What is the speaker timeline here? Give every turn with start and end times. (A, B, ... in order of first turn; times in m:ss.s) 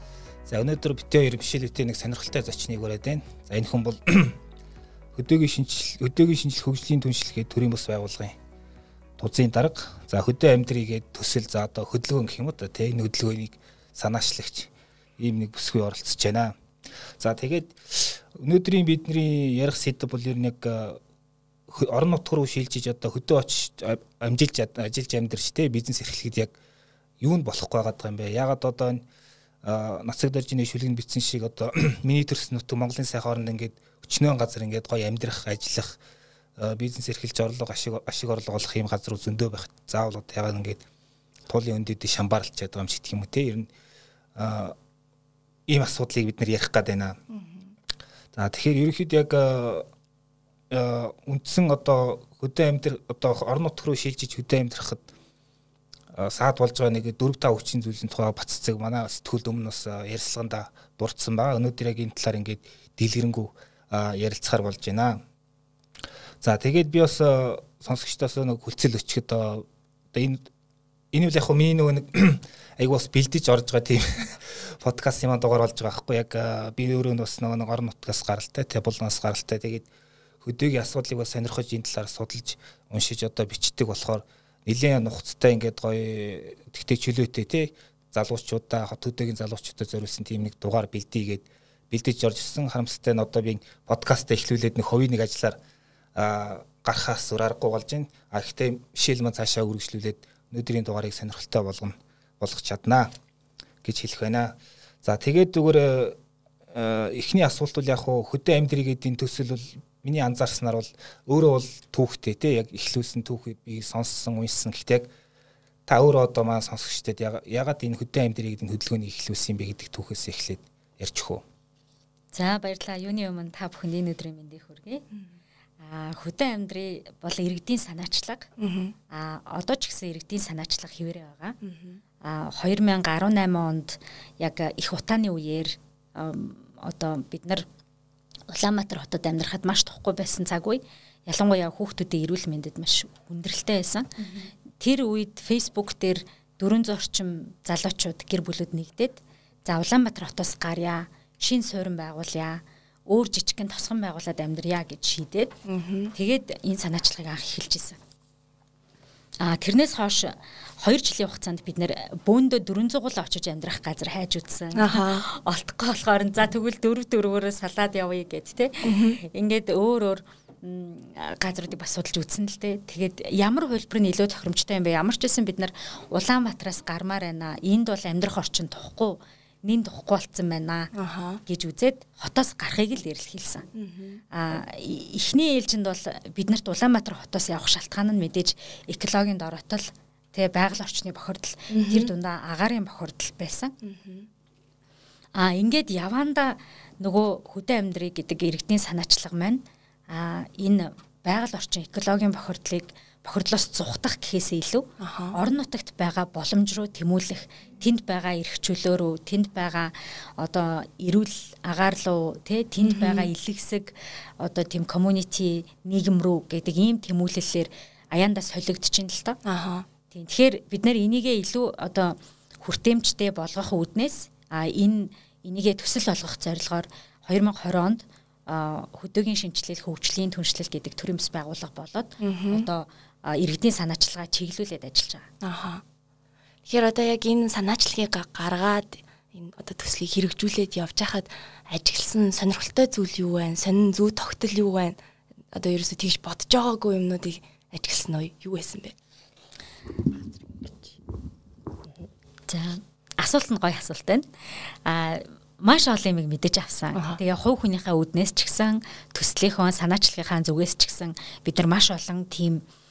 0:00.4-0:04.4 A
0:05.1-0:08.4 A
0:09.2-0:16.5 A
0:17.2-0:21.0 A
0:21.7-0:26.5 A
0:27.2-0:29.0 A
0:29.6-0:35.9 A
0:36.6-0:40.8 A
0:41.5-0:43.7 A
0:44.4-0:44.8 A
0:45.7-0:47.2 A
0:47.3-0:47.7 B
0:48.3-0:49.8 A
0:50.7-0:55.0 A
0:56.1-1:05.2 A
1:06.4-1:10.5 A
1:11.1-1:19.8 A
1:20.4-1:35.6 A
1:36.2-1:43.1 A
1:43.8-1:46.2 A
1:46.7-1:55.1 A
1:55.9-2:01.4 A
2:02.3-2:05.0 C
2:05.8-2:08.5 C
2:08.6-2:08.9 B
2:09.1-2:11.6 C
2:11.6-2:12.0 B
2:12.2-2:17.7 C
2:18.5-2:24.3 C
2:24.8-2:35.5 C
2:35.7-2:36.1 B
2:36.1-2:38.0 C
2:39.4-3:00.9 C
2:44.7-2:45.2 B
2:48.8-2:49.2 B
3:00.9-3:01.4 B
3:01.4-3:03.7 C
3:03.7-3:04.2 B
3:04.3-3:13.7 C
3:11.7-3:12.1 B
3:13.8-3:14.3 B
3:15.3-3:39.4 C
3:25.0-3:25.4 B
3:32.8-3:33.3 B
3:39.4-3:39.8 B
3:40.1-3:55.2 C
3:52.2-3:52.6 B
3:55.4-3:55.8 B
3:56.6-4:05.0 B
4:05.5-4:08.9 B
4:12.5-4:22.6 C
4:16.9-4:17.2 B